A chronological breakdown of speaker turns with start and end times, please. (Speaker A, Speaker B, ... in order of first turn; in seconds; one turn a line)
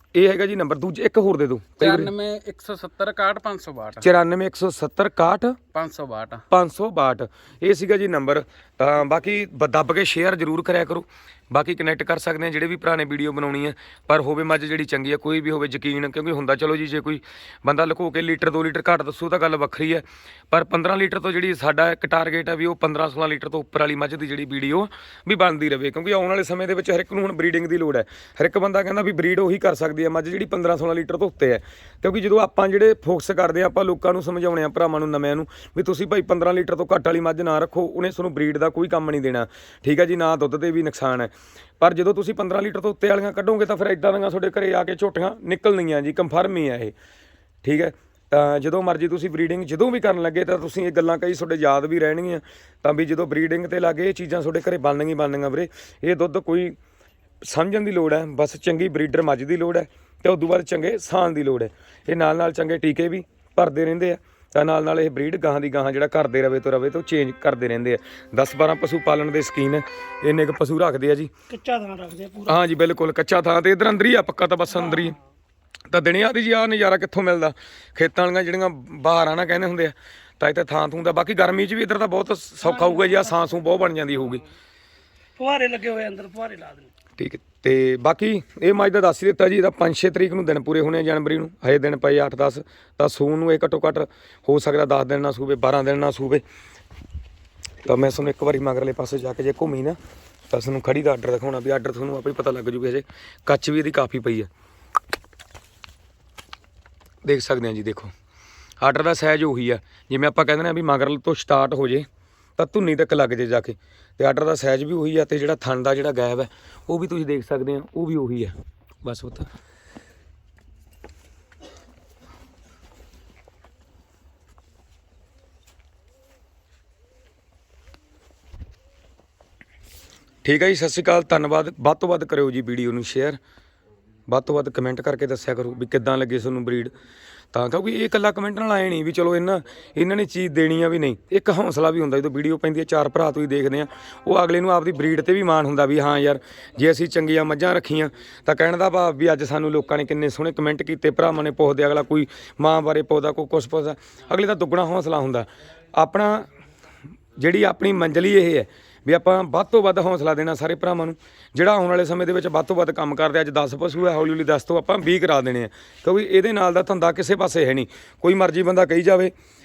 Speaker A: 0.1-2.1
Speaker B: 1.8-4.1
Speaker A: 4.0-5.6
Speaker B: 5.7-6.4
Speaker A: 6.5-46.9
Speaker A: 47.6-56.8
Speaker A: 57.4-71.3
Speaker C: 71.5-72.6
Speaker A: 72.5-75.2
Speaker C: 74.8-75.2
Speaker A: 75.9-84.4
Speaker C: 82.6-83.5
Speaker C: 85.4-86.9
Speaker A: 87.2-96.4
Speaker A: 97.8-100.0
Speaker A: 100.5-104.5
Speaker A: 107.2-108.1
Speaker A: 108.8-119.5
Speaker A: 130.4-133.4
Speaker A: 134.3-136.9
Speaker A: 137.5-156.5
Speaker A: 157.4-169.3